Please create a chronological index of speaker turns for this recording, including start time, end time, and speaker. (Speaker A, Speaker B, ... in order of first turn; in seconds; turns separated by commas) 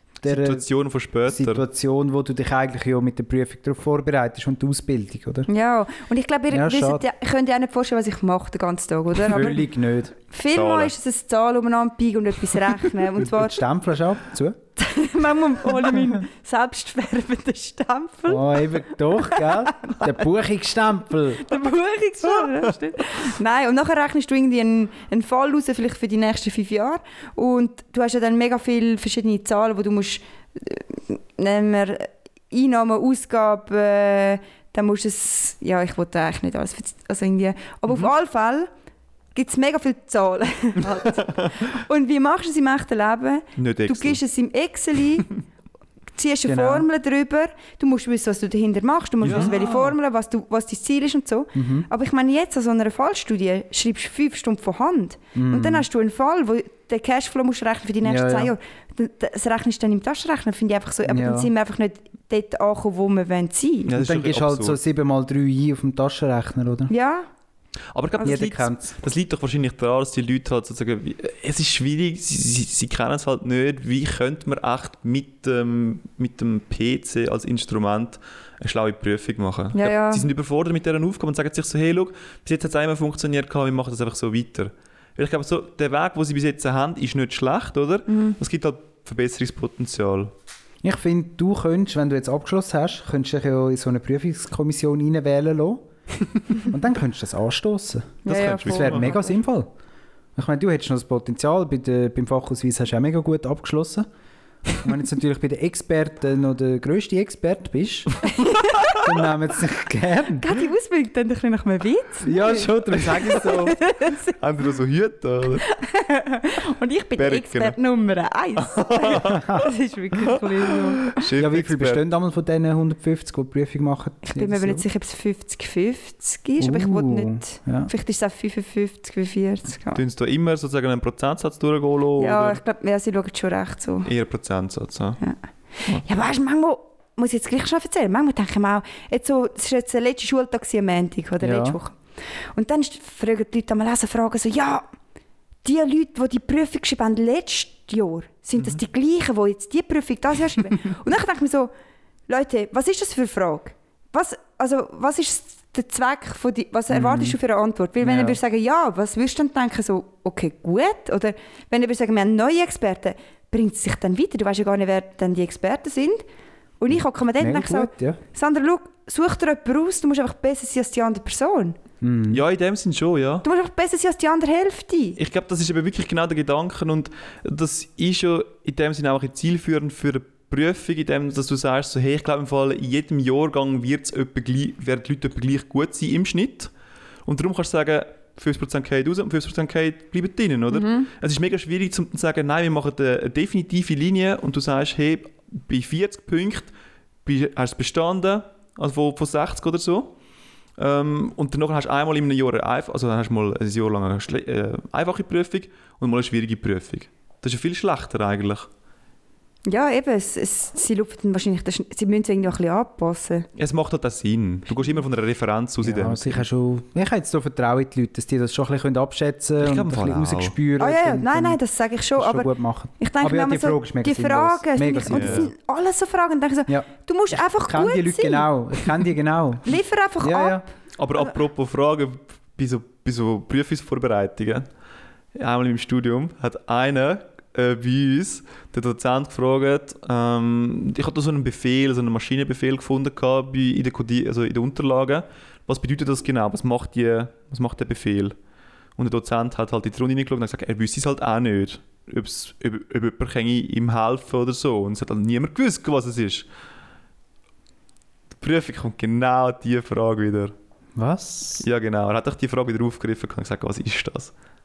Speaker A: 0.2-0.6, Speaker B: 0.2-1.6, Speaker A: 1.3-5.5, Speaker C: 5.5-9.7, Speaker A: 6.5-7.0, Speaker A: 9.2-10.1, Speaker C: 10.3-13.6, Speaker B: 10.5-10.9, Speaker A: 13.3-14.6, Speaker C: 14.8-20.1, Speaker A: 18.3-21.5, Speaker C: 21.4-38.7, Speaker C: 39.3-45.3, Speaker B: 43.6-44.2, Speaker C: 46.1-63.9, Speaker A: 46.5-46.9, Speaker B: 49.2-49.9, Speaker A: 51.5-51.9, Speaker A: 55.3-55.9, Speaker A: 58.0-58.5, Speaker A: 61.1-61.5, Speaker B: 63.9-64.8, Speaker A: 63.9-66.9, Speaker C: 66.9-67.3, Speaker B: 67.9-90.3, Speaker A: 68.2-68.9, Speaker C: 79.7-80.2, Speaker C: 88.1-88.3, Speaker A: 90.8-95.9, Speaker A: 96.6-99.7, Speaker C: 98.2-99.3, Speaker B: 98.2-99.2, Speaker A: 100.3-104.1, Speaker A: 104.8-108.1, Speaker C: 108.2-109.0, Speaker A: 108.9-110.5, Speaker C: 110.4-114.4, Speaker A: 112.2-113.8, Speaker B: 114.4-115.6, Speaker C: 115.7-121.2, Speaker B: 117.2-117.8, Speaker B: 118.6-119.7, Speaker A: 119.2-119.6, Speaker B: 121.0-122.0, Speaker A: 121.3-124.8, Speaker C: 124.2-130.0, Speaker A: 126.6-127.9, Speaker B: 129.9-132.6, Speaker C: 132.2-134.1, Speaker B: 134.0-135.2, Speaker C: 136.0-142.0, Speaker A: 141.4-141.8, Speaker C: 142.5-144.8, Speaker C: 145.6-151.7, Speaker C: 152.3-166.2, Speaker B: 156.9-157.3, Speaker A: 158.0-158.3, Speaker C: 166.8-171.8, Speaker A: 167.4-168.2, Speaker A: 172.0-172.4, Speaker B: 172.3-173.4, Speaker C: 173.4-175.2, Speaker B: 175.2-186.7, Speaker B: 187.2-196.7, Speaker C: 190.7-191.1, Speaker B: 197.2-200.1, Speaker B: 200.8-208.7, Speaker C: 209.7-213.5, Speaker B: 213.6-216.4, Speaker A: 215.8-221.6, Speaker B: 219.6-220.5, Speaker C: 220.8-228.5, Speaker A: 222.1-225.5, Speaker B: 225.1-225.5, Speaker A: 226.7-230.6, Speaker C: 229.6-230.7, Speaker B: 231.0-234.7, Speaker B: 235.3-248.3, Speaker B: 249.0-256.4, Speaker B: 258.4-260.5, Speaker A: 260.9-261.6, Speaker B: 261.6-264.3